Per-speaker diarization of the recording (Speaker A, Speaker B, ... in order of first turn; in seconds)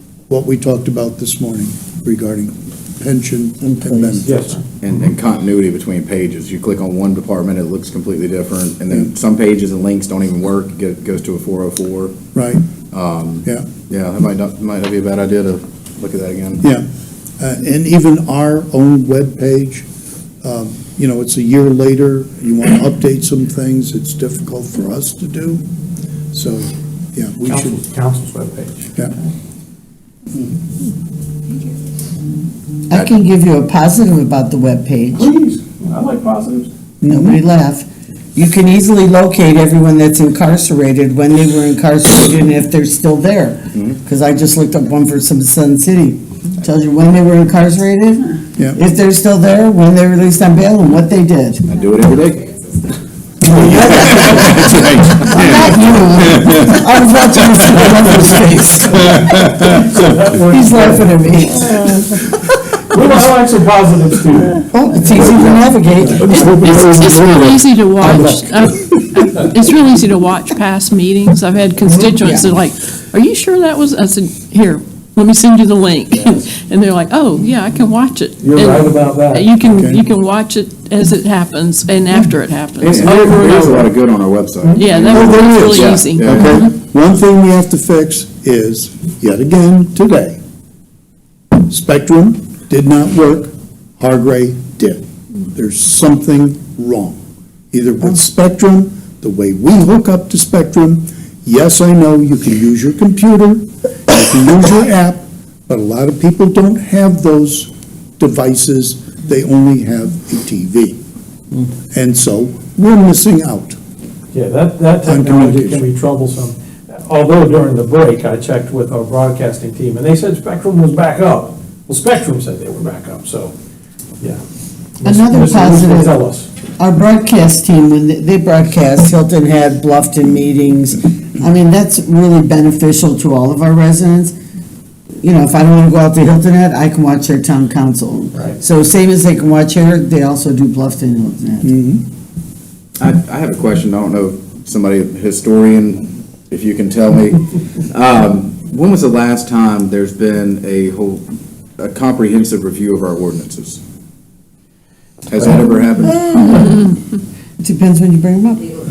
Speaker A: 0.3-4.5, 12.3-12.7, 13.4-13.7, 17.4-19.8, 20.4-25.6, 26.3-27.8, 37.0-37.4, 64.9-66.5, 79.6-80.0, 85.1-90.4, 91.7-97.2, 97.7-111.0, 111.9-113.8, 115.0-115.8, 141.6-142.0
Speaker B: 4.2-4.6, 27.5-29.3, 35.1-36.7, 59.1-62.3, 62.9-64.6, 66.2-68.4, 71.8-72.1, 78.4-79.5, 82.9-83.9, 84.6-85.0, 114.3-123.5, 125.0-126.5
Speaker C: 4.8-12.2, 12.9-16.6, 51.7-52.5, 53.7-56.7, 82.8-86.6, 143.0-151.2, 151.8-153.8, 155.3-156.7
Speaker D: 32.9-35.3, 37.1-51.6, 53.4-59.5, 60.4-61.9, 64.7-66.9, 125.0-126.2, 126.8-134.3, 135.2-141.7, 156.3-156.8, 157.6-158.7
Speaker E: 66.5-83.7, 84.8-86.7